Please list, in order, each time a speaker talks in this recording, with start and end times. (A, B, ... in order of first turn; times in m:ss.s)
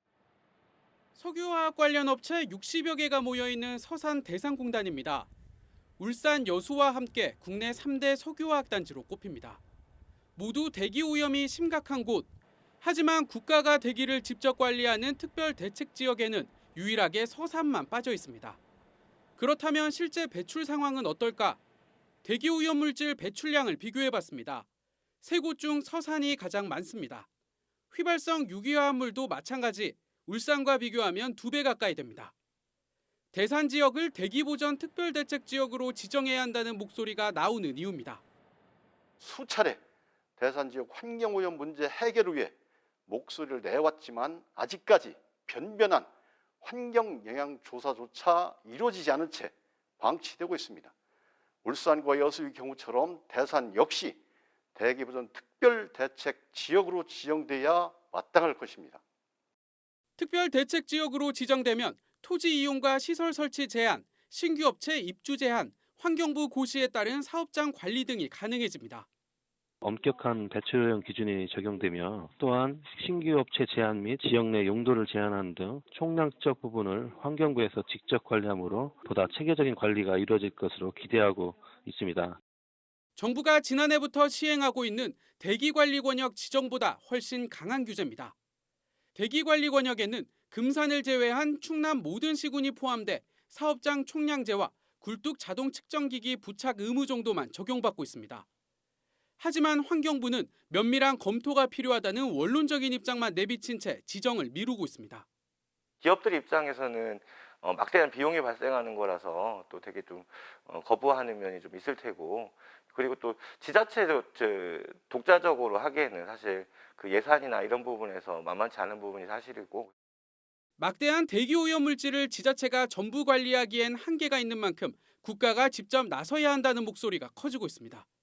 0:01.1-0:05.3 A
0:06.0-0:09.6 A
0:10.4-0:12.3 A
0:12.8-0:18.6 A
0:19.4-0:21.6 A
0:22.2-0:24.6 A
0:25.2-0:27.3 A
0:27.9-0:32.3 A
0:33.3-0:38.2 A
0:39.2-0:39.8 B
0:40.4-0:42.5 B
0:43.1-0:46.1 B
0:46.6-0:50.9 B
0:51.6-0:54.2 B
0:54.7-0:59.0 B
1:00.2-1:09.1 A
1:09.8-1:22.4 C
1:23.2-1:28.3 A
1:29.1-1:38.4 A
1:39.4-1:45.2 A
1:46.0-1:59.9 D
2:00.8-2:08.0 A